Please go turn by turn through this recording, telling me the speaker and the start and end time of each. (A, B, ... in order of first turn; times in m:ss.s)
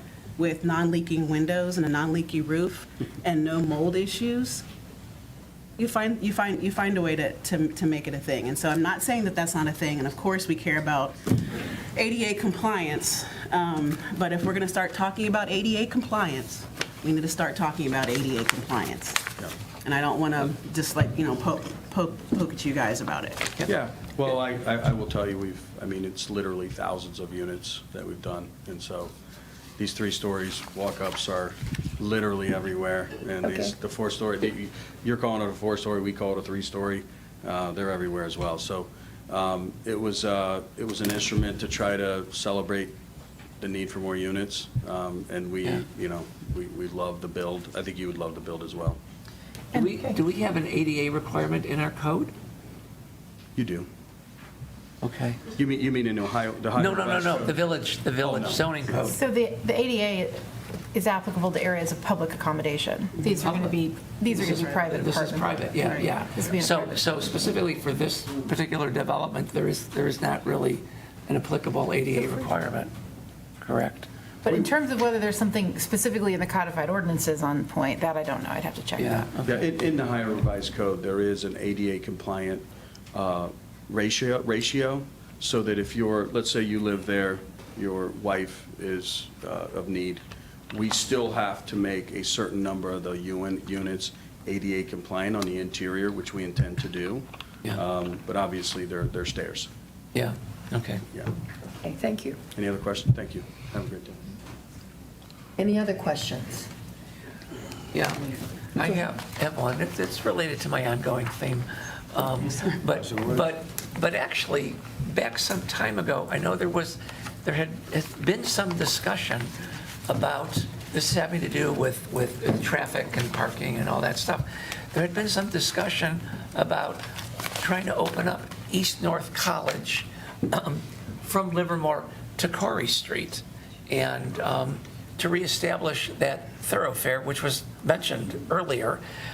0:00.4-0:04.6 A
0:05.8-0:11.1 A
0:12.0-0:19.2 A
0:19.8-0:23.4 A
0:23.7-0:29.1 B
0:29.8-0:43.0 B
0:33.4-0:33.7 C
0:43.6-0:49.0 B
0:49.7-0:52.3 D
0:49.8-0:50.1 E
0:53.6-0:53.9 B
0:55.0-0:55.4 D
0:55.6-0:57.6 B
0:56.7-0:59.2 D
0:58.2-0:58.7 B
0:59.1-1:00.4 E
1:00.9-1:07.0 E
1:03.2-1:12.9 D
1:13.6-1:14.1 D
1:14.4-1:19.4 E
1:19.0-1:19.6 D
1:19.4-1:39.7 B
1:40.1-1:41.0 D
1:41.8-1:42.4 C
1:42.6-1:44.2 B
1:45.6-1:46.7 C
1:47.9-1:59.5 D
2:00.1-2:07.0 D
2:07.6-2:19.0 D